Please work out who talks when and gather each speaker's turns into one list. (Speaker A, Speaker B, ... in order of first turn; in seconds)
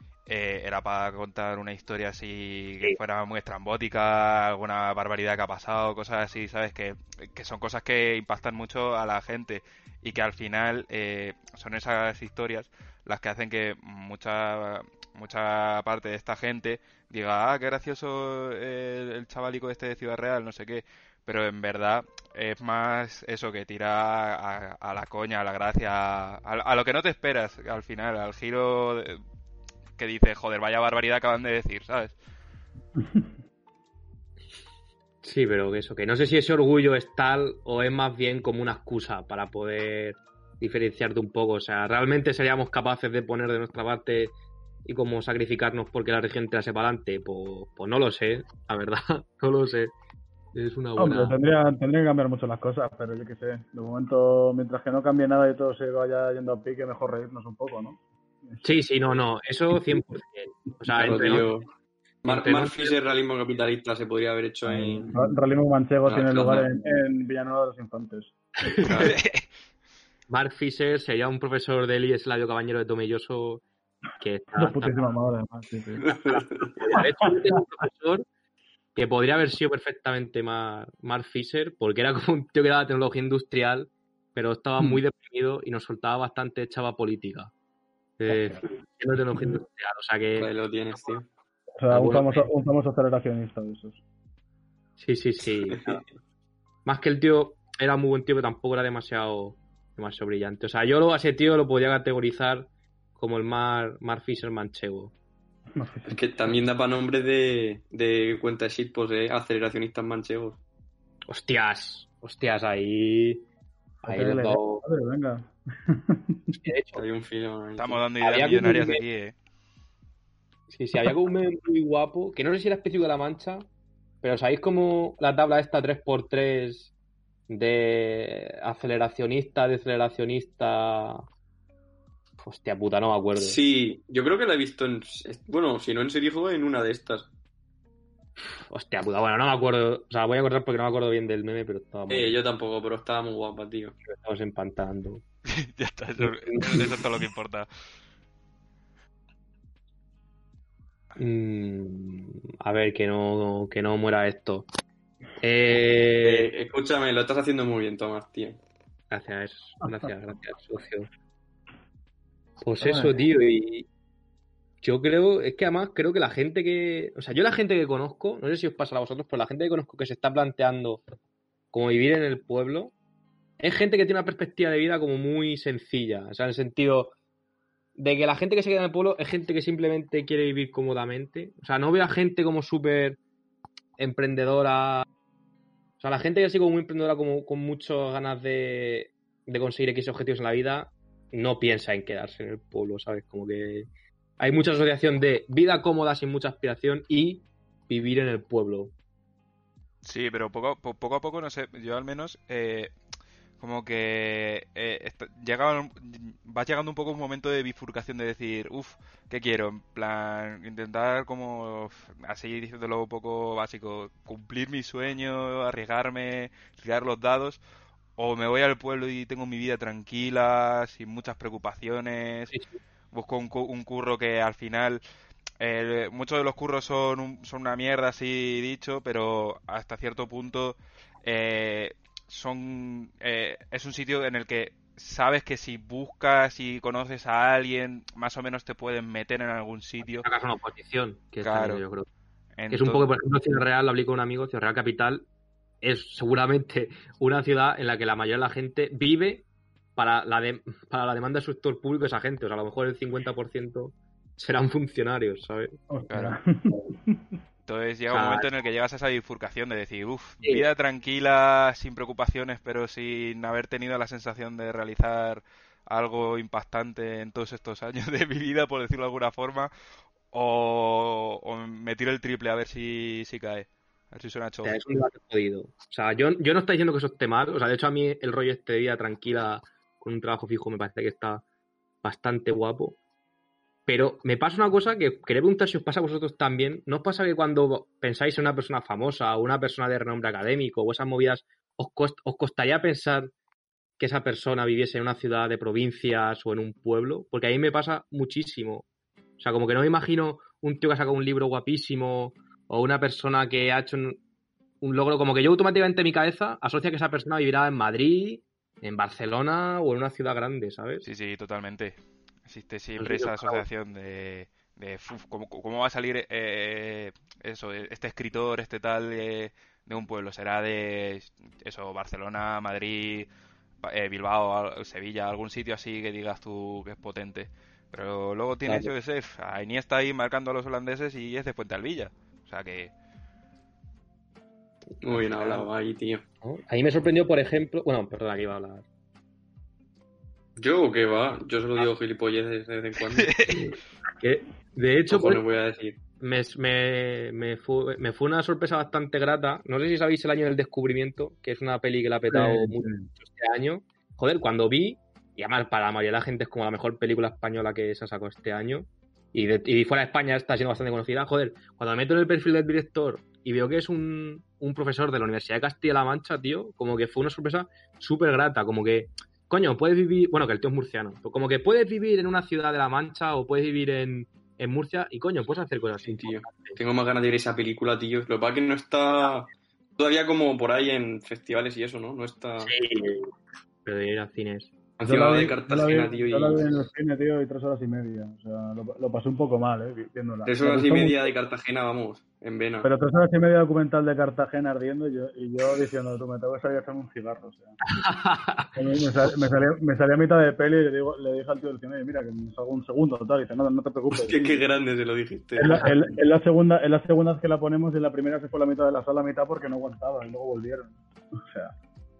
Speaker A: 0.3-29.2, 30.0-32.1, 69.1-69.4, 117.8-119.3, 145.5-147.7, 200.0-202.9, 203.6-217.6, 218.2-222.5, 223.1-225.0, 225.6-240.2, 241.4-241.8, 242.6-243.1, 256.1-256.4, 257.6-269.7, 270.3-274.8, 311.0-323.3, 323.8-332.9, 343.1-343.6
Speaker B: 35.2-49.9, 50.5-51.3, 58.6-61.5, 62.3-63.0, 70.3-73.6, 74.2-75.1, 76.8-78.2, 78.9-87.5, 88.2-90.5, 91.9-92.5, 95.0-96.0, 96.8-105.1, 111.3-113.4, 114.0-114.8, 116.6-117.0, 118.2-119.0, 120.7-123.7, 124.2-126.9, 127.5-131.2, 132.4-133.6, 138.7-142.4, 144.1-145.2, 146.2-147.0, 151.2-154.7, 155.4-156.5, 159.1-161.1, 162.6-163.9, 164.8-171.0, 171.7-172.9, 173.6-177.1, 177.9-183.2, 184.0-185.1, 186.0-193.9, 194.4-198.9, 240.2-242.1, 242.7-245.3, 245.8-255.8, 258.1-258.5, 274.6-281.4, 282.0-283.0, 283.9-293.3, 294.0-298.9, 299.4-304.2, 304.8-311.1, 313.0-313.6, 328.6-328.9, 335.1-335.6, 336.4-338.9, 343.5-345.4, 346.2-376.8, 382.6-383.3, 383.8-384.7, 397.9-398.7
Speaker C: 51.0-58.8, 64.7-68.3, 74.5-76.1, 88.3-88.6, 91.8-94.0, 105.8-106.5, 114.0-116.5, 162.8-163.1, 255.9-257.3, 352.3-353.0, 385.0-391.2, 392.8-397.7, 398.7-404.5, 405.6-411.7
Speaker D: 61.0-61.6, 62.2-65.1, 66.0-66.7, 68.8-69.2, 76.0-76.8, 90.4-91.2, 95.7-96.0, 106.0-110.6, 116.9-118.0, 133.3-137.3, 142.1-143.9, 156.2-158.6, 335.0-336.2, 340.6-343.3, 345.1-345.9, 376.0-382.7, 385.0-386.8, 390.4-392.9, 404.1-405.9